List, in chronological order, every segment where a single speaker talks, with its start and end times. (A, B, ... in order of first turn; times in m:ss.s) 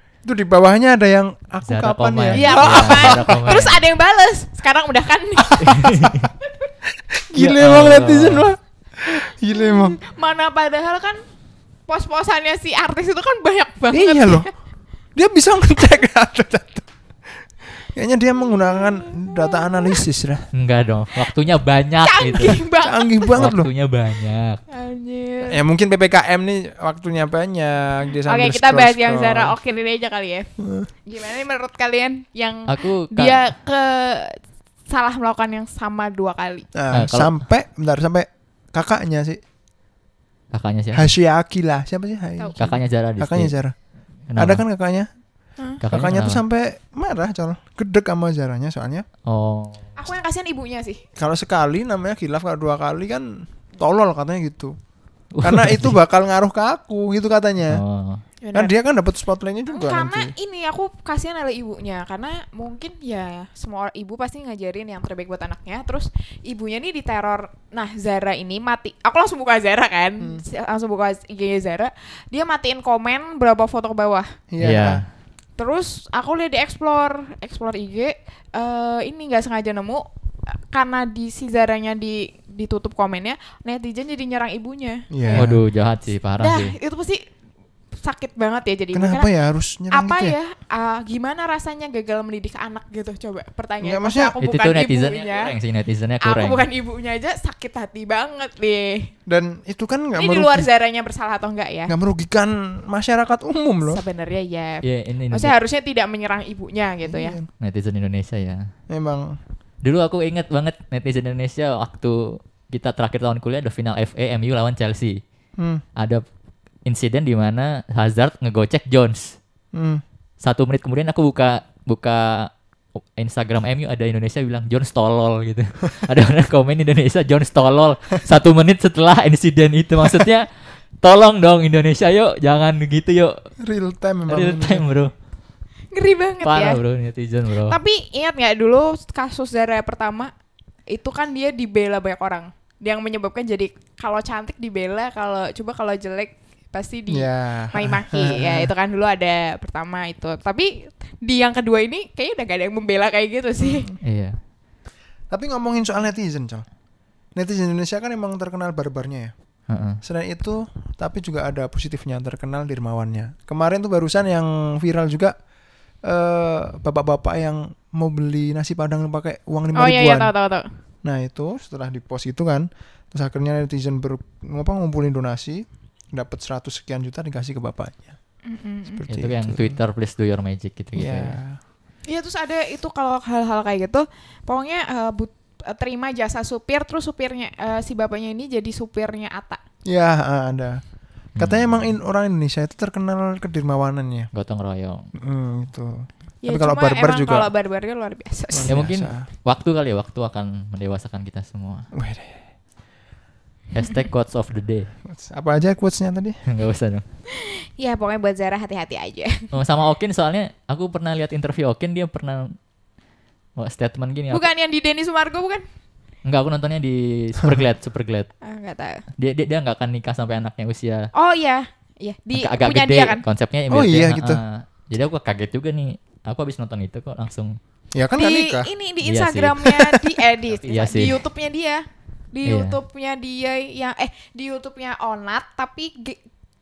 0:00.2-0:03.6 A
0:01.7-0:03.8 B
0:02.3-0:06.7 C
0:05.5-0:06.0 A
0:05.6-0:06.3 B
0:07.1-0:10.0 A
0:07.4-0:08.5 B
0:09.5-0:11.2 C
0:11.9-0:14.5 C
0:13.9-0:14.5 A
0:15.2-0:16.9 A
0:17.6-0:20.5 A
0:18.5-0:20.0 C
0:20.5-0:22.6 B
0:22.0-0:23.4 C
0:22.8-0:23.7 A
0:23.4-0:24.6 B
0:24.7-0:25.6 C
0:25.5-0:29.6 A
0:28.3-0:30.5 C
0:30.6-0:30.9 A
0:31.1-0:34.4 C
0:32.7-0:33.4 B
0:34.9-0:36.7 C
0:36.7-0:39.4 A
0:36.9-0:37.3 B
0:40.5-0:41.1 B
0:40.9-0:43.8 A
0:42.6-0:43.5 B
0:44.3-0:44.6 B
0:44.4-0:45.1 A
0:45.8-0:46.4 B
0:45.9-0:49.1 A
0:49.3-0:49.9 B
0:50.0-0:51.0 C
0:51.2-0:54.8 A
0:55.3-0:56.0 B
0:55.4-0:57.8 A
0:57.7-0:58.2 B
0:58.4-0:58.7 C
0:58.5-1:00.3 A
0:59.7-1:14.3 C
1:14.5-1:15.0 A
1:14.6-1:15.0 B
1:15.6-1:25.5 C
1:25.1-1:25.6 A
1:25.4-1:26.8 B
1:26.4-1:27.2 C
1:28.0-1:29.3 C
1:28.9-1:30.4 A
1:29.9-1:35.5 C
1:33.8-1:34.4 A
1:34.4-1:36.6 B
1:36.2-1:39.1 C
1:39.3-1:40.7 A
1:40.2-1:41.9 C
1:41.9-1:44.0 A
1:43.9-1:47.4 C
1:44.8-1:45.5 B
1:47.1-1:47.5 A
1:47.6-1:48.7 B
1:48.9-1:49.4 A
1:49.8-1:55.2 B
1:56.0-1:56.2 B
1:56.8-1:59.4 B
1:59.7-2:00.0 A
2:00.4-2:02.5 B
2:03.2-2:10.5 B
2:11.0-2:13.4 B
2:13.6-2:14.9 A
2:14.3-2:15.1 B
2:15.9-2:16.8 C
2:16.4-2:17.8 B
2:17.7-2:20.3 C
2:20.9-2:33.9 C
2:27.1-2:28.7 A
2:33.6-2:34.0 A
2:34.0-2:34.4 B
2:35.3-2:36.6 A
2:37.4-2:39.3 A
2:39.7-2:40.0 B
2:40.0-2:45.4 A
2:46.0-2:50.3 A
2:49.7-2:50.7 C
2:51.0-2:58.2 A
2:58.5-2:59.0 C
2:58.9-2:59.8 A
2:59.1-3:01.4 B
3:01.0-3:01.6 A
3:02.1-3:09.6 C
3:09.9-3:10.8 A
3:11.4-3:11.9 B
3:11.4-3:14.3 A
3:14.3-3:15.1 B
3:15.2-3:17.5 A
3:16.4-3:18.8 C
3:18.5-3:19.3 A
3:18.7-3:21.9 B
3:21.9-3:22.4 A
3:23.7-3:24.9 B
3:25.1-3:26.4 A
3:26.5-3:27.0 B
3:27.3-3:29.5 C
3:29.5-3:32.6 B
3:33.6-3:34.5 B
3:34.3-3:35.6 C
3:36.2-3:38.3 B
3:38.4-3:39.0 C
3:39.2-3:41.1 B
3:41.1-3:43.2 C
3:42.4-3:47.6 B
3:43.7-3:44.4 A
3:47.9-3:48.7 A
3:48.1-3:56.2 C
3:49.0-3:49.7 B
3:50.6-3:51.2 B
3:52.4-3:52.8 B